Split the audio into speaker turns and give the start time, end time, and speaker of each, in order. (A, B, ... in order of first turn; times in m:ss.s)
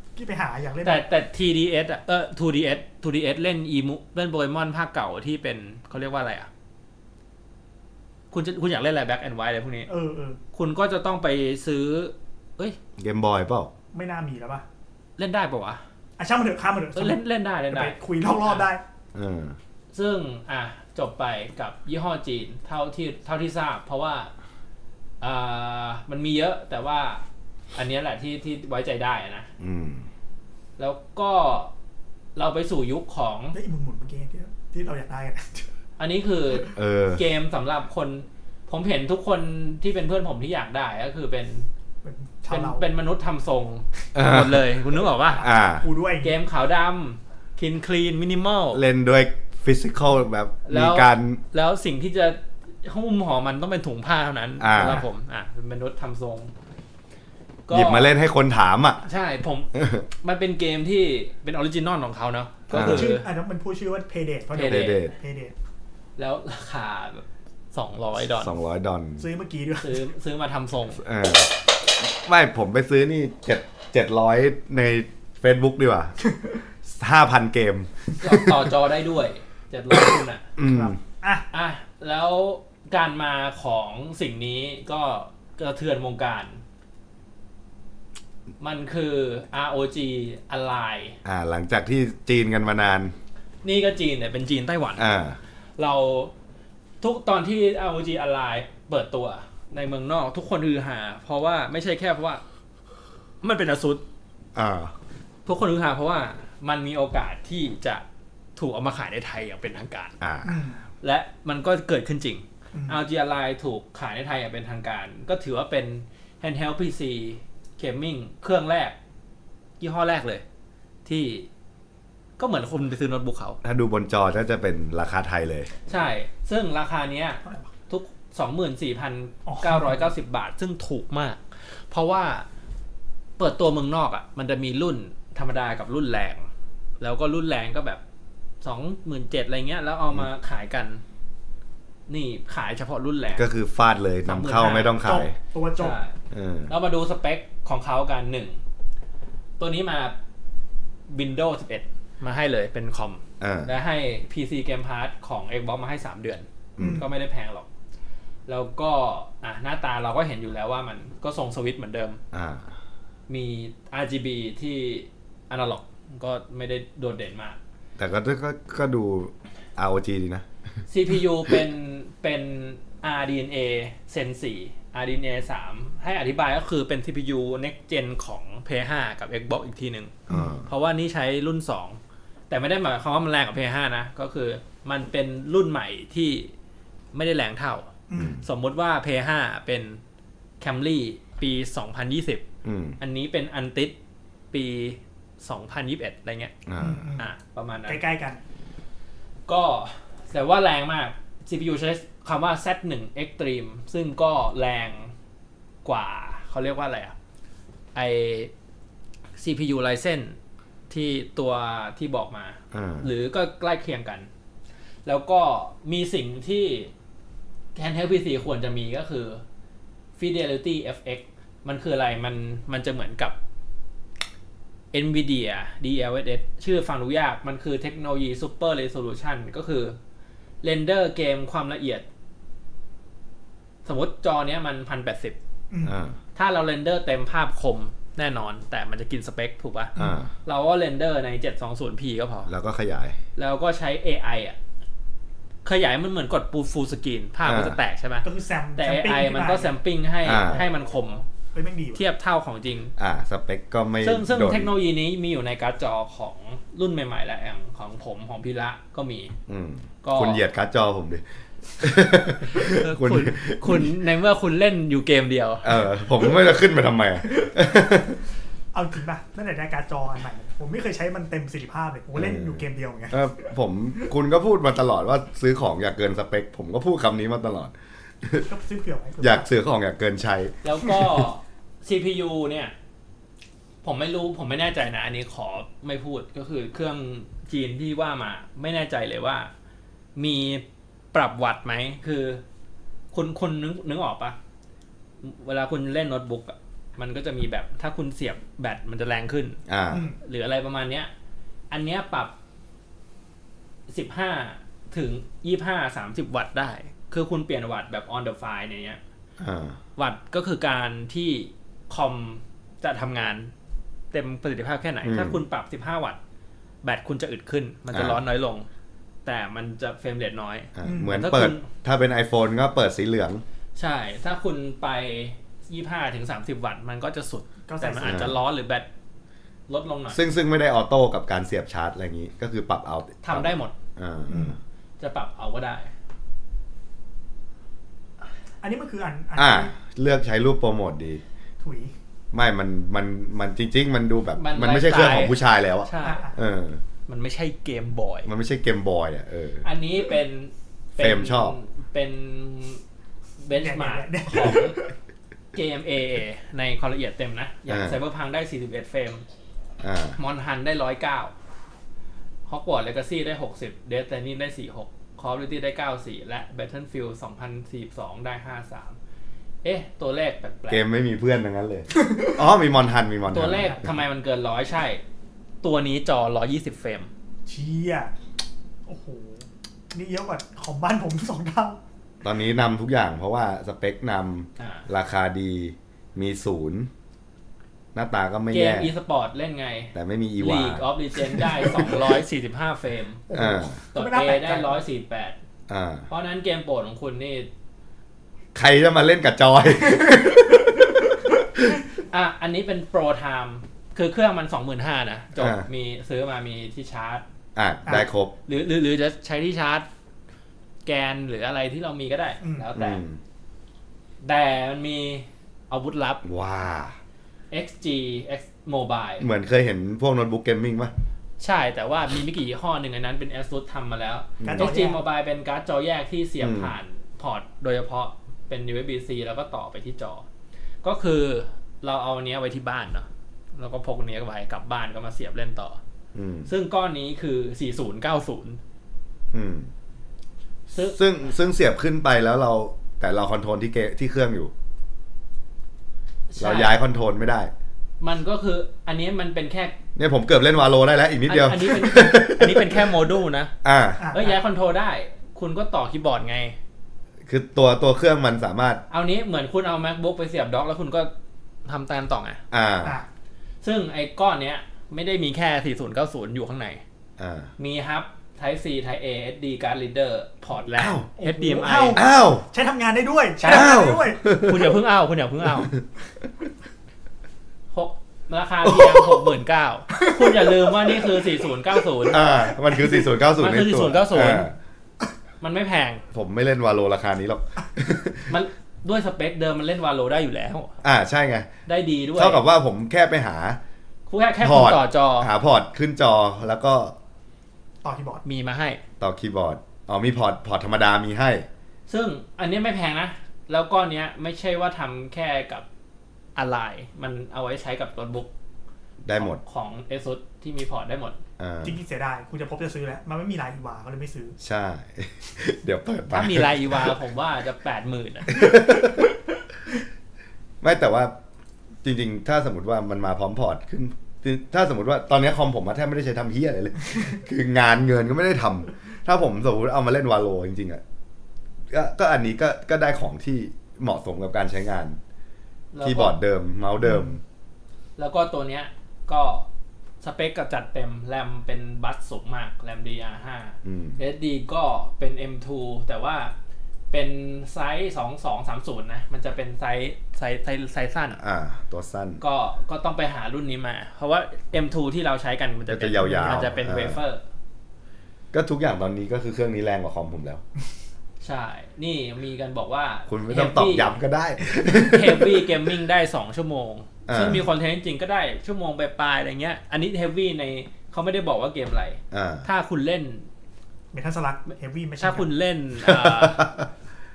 0:00.2-0:01.0 A
0:00.8-0:06.5 B
0:08.3-0:09.9 B
0:09.9-0:10.4 A
0:10.5-0:12.8 B
0:13.0-0:13.7 C
0:13.9-0:14.6 A
0:15.2-0:15.8 B
0:16.2-0:18.8 A
0:16.9-0:18.6 B
0:19.1-0:19.6 C
0:19.9-0:24.3 B
0:25.2-0:29.5 B
0:29.6-0:30.0 C
0:30.8-0:31.7 B
0:32.4-0:33.6 B
0:33.5-0:35.7 A
0:36.0-0:41.7 B
0:36.7-0:37.2 C
0:42.0-0:42.8 A
0:42.5-0:45.4 B
0:44.1-0:44.6 C
0:45.4-0:45.8 C
0:45.7-0:46.4 A
0:46.2-0:48.8 B
0:48.7-0:51.4 C
0:50.6-0:56.5 B
0:54.6-0:55.0 C
0:54.8-0:55.0 A
0:57.7-0:58.1 B
0:57.7-0:59.0 C
0:59.0-1:03.3 B
0:59.7-1:00.0 C
1:02.7-1:03.1 C
1:02.7-1:05.5 A
1:04.5-1:05.0 B
1:04.6-1:05.1 C
1:06.2-1:08.5 B
1:08.3-1:09.2 C
1:09.2-1:10.0 A
1:09.8-1:11.0 B
1:11.0-1:16.1 C
1:16.8-1:17.9 C
1:18.2-1:20.5 B
1:20.6-1:21.0 C
1:20.6-1:21.5 A
1:21.5-1:26.6 B
1:28.6-1:31.2 B
1:31.2-1:33.1 C
1:33.6-1:35.1 B
1:35.0-1:35.4 C
1:35.8-1:36.3 B
1:37.0-1:42.4 B
1:43.4-1:44.0 B
1:44.5-1:44.9 C
1:45.4-1:48.0 B
1:48.6-1:50.1 B
1:50.2-1:50.6 C
1:50.4-1:50.8 A
1:51.0-1:59.0 B
1:52.7-1:53.0 A
1:59.8-2:00.4 B
2:01.0-2:01.5 B
2:02.4-2:03.6 B
2:03.6-2:05.7 C
2:05.9-2:12.5 B
2:09.4-2:10.1 A
2:13.4-2:16.4 B
2:17.0-2:18.0 B
2:18.6-2:21.0 B
2:22.1-2:23.5 B
2:23.4-2:25.3 C
2:24.2-2:25.1 B
2:25.0-2:26.0 A
2:25.8-2:26.2 B
2:26.3-2:26.7 C
2:26.7-2:28.6 B
2:29.6-2:30.2 B
2:31.1-2:37.7 B
2:33.4-2:33.7 C
2:36.8-2:37.0 C
2:36.8-2:37.1 A
2:38.5-2:42.2 B
2:42.3-2:42.7 C
2:43.3-2:47.6 B
2:48.0-2:50.4 C
2:50.9-3:02.0 B
3:00.3-3:00.7 C
3:02.5-3:06.5 B
3:07.1-3:10.0 B
3:08.1-3:08.4 A
3:08.2-3:08.4 C
3:10.6-3:12.4 B
3:12.6-3:13.0 C
3:13.0-3:14.0 B
3:14.5-3:16.6 B
3:16.6-3:17.1 C
3:16.8-3:17.3 A
3:17.2-3:18.0 B
3:17.8-3:18.4 A
3:19.5-3:25.1 B
3:25.8-3:27.1 B
3:27.9-3:28.5 B
3:29.4-3:30.4 B
3:30.9-3:34.3 B
3:32.7-3:33.1 C
3:35.0-3:36.9 B
3:37.7-3:39.4 B
3:40.2-3:43.4 B
3:44.9-3:50.0 B
3:50.6-3:52.0 B
3:53.8-3:55.4 B
3:55.7-3:56.0 A
3:55.8-3:56.2 C
3:56.3-3:59.9 B
4:00.0-4:00.3 C
4:00.0-4:00.2 A
4:00.4-4:02.5 B
4:02.5-4:03.2 C
4:03.4-4:04.6 B
4:05.6-4:11.2 B
4:07.4-4:07.8 C
4:08.2-4:09.8 A
4:10.2-4:10.6 C
4:10.4-4:12.0 A
4:11.9-4:12.9 B
4:13.0-4:14.7 C
4:14.0-4:19.3 B
4:19.5-4:21.2 C
4:20.0-4:20.4 B
4:21.8-4:23.9 C
4:22.5-4:25.8 B
4:25.6-4:28.2 C
4:27.3-4:28.0 A
4:28.7-4:33.3 A
4:32.1-4:38.5 C
4:38.4-4:39.5 A
4:39.2-4:40.5 C
4:40.6-4:42.7 B
4:43.8-4:49.5 B
4:50.2-4:52.4 B
4:53.1-4:54.4 B
4:55.2-4:59.6 B
4:59.7-5:00.1 C
4:59.9-5:00.2 A
5:00.2-5:01.1 B
5:01.7-5:02.3 B
5:03.9-5:09.0 B
5:09.4-5:09.8 C
5:10.0-5:13.5 B
5:14.1-5:16.2 B
5:15.0-5:15.4 C
5:16.8-5:18.7 B
5:17.9-5:18.2 C
5:19.2-5:21.7 B
5:20.8-5:23.4 C
5:20.8-5:21.2 A
5:23.8-5:28.9 B
5:27.7-5:28.2 A
5:28.0-5:28.4 C
5:29.7-5:30.2 B
5:30.1-5:34.6 C
5:33.2-5:33.7 B
5:34.3-5:34.6 A
5:35.0-5:35.9 B
5:38.6-5:39.7 A
5:39.4-5:41.2 C
5:41.6-5:41.9 A
5:42.3-5:46.8 C
5:44.4-5:46.2 B
5:46.0-5:46.3 A
5:47.1-5:48.3 B
5:48.2-5:49.6 C
5:49.6-5:52.8 B
5:51.0-5:51.6 C
5:53.4-5:54.8 B
5:53.5-5:54.9 A
5:55.5-5:59.2 B
5:57.7-5:58.0 C
5:59.8-6:00.2 C
6:00.2-6:01.3 B
6:02.5-6:09.0 B
6:09.6-6:10.8 B
6:10.7-6:13.9 C
6:11.9-6:12.4 A
6:13.3-6:15.0 B
6:15.6-6:17.1 B
6:17.4-6:18.1 A
6:18.9-6:21.8 A
6:22.2-6:26.9 C
6:24.6-6:24.8 B
6:27.9-6:28.9 C
6:28.5-6:33.2 B
6:29.9-6:30.8 C
6:33.3-6:34.8 A
6:33.3-6:33.8 C
6:33.9-6:35.4 B
6:35.7-6:36.1 C
6:36.1-6:37.5 B
6:38.5-6:40.8 C
6:39.8-6:40.5 A
6:42.1-6:47.2 B
6:45.4-6:45.6 C
6:47.6-6:48.3 C
6:48.4-6:49.9 B
6:50.8-6:53.0 B
6:52.4-6:52.7 A
6:52.7-6:53.2 C
6:54.2-6:56.2 B
6:56.2-6:57.0 C
6:57.5-6:59.3 B
6:59.2-7:00.9 C
7:01.4-7:10.2 B
7:04.4-7:04.7 C
7:04.4-7:05.0 A
7:06.4-7:06.7 C
7:10.8-7:15.8 B
7:16.1-7:16.5 C
7:16.5-7:18.6 B
7:19.3-7:19.7 C
7:20.7-7:21.0 B
7:20.9-7:24.5 C
7:26.3-7:26.7 B
7:26.4-7:27.5 C
7:28.0-7:29.8 B
7:30.0-7:32.8 C
7:31.2-7:33.5 B
7:33.6-7:34.0 C
7:34.0-7:34.3 A
7:34.1-7:36.6 B
7:37.2-7:38.8 C
7:38.9-7:41.1 B
7:41.6-7:42.4 B
7:42.5-7:43.0 C
7:43.6-7:46.8 B
7:47.2-7:47.5 C
7:47.6-7:52.0 B
7:50.8-7:51.1 C
7:51.2-7:54.2 A
7:51.9-7:52.4 C
7:53.4-7:55.7 B
7:53.4-7:54.7 C
7:57.7-8:02.2 B
7:58.7-7:59.3 A
8:00.0-8:01.4 A
8:02.1-8:04.5 C
8:02.4-8:03.1 A
8:03.4-8:04.5 B
8:05.4-8:06.0 B
8:06.1-8:08.3 C
8:08.3-8:10.7 B
8:10.8-8:11.5 C
8:11.7-8:12.4 B
8:12.1-8:13.6 C
8:14.1-8:15.3 B
8:14.4-8:16.9 C
8:17.8-8:18.2 A
8:18.2-8:18.8 B
8:19.0-8:21.5 C
8:21.9-8:25.6 B
8:26.4-8:28.3 B
8:29.0-8:29.4 C
8:29.2-8:31.2 B
8:31.4-8:31.8 C
8:31.6-8:34.4 A
8:34.4-8:37.0 C
8:36.1-8:38.5 B
8:38.3-8:39.1 C
8:40.6-8:41.1 C
8:41.8-8:50.8 C
8:51.7-8:55.0 C
8:55.7-8:56.2 B
8:55.8-8:57.2 C
8:56.8-8:57.2 A
8:58.0-8:59.5 B
9:00.0-9:06.3 B
9:03.6-9:04.0 C
9:06.9-9:11.2 B
9:11.2-9:12.2 C
9:12.2-9:17.2 B
9:15.7-9:17.0 C
9:18.3-9:20.4 C
9:21.2-9:24.0 B
9:23.1-9:25.6 C
9:24.7-9:33.3 B
9:27.1-9:27.4 C
9:32.1-9:32.5 C
9:33.9-9:35.3 A
9:35.0-9:36.5 B
9:35.8-9:36.7 C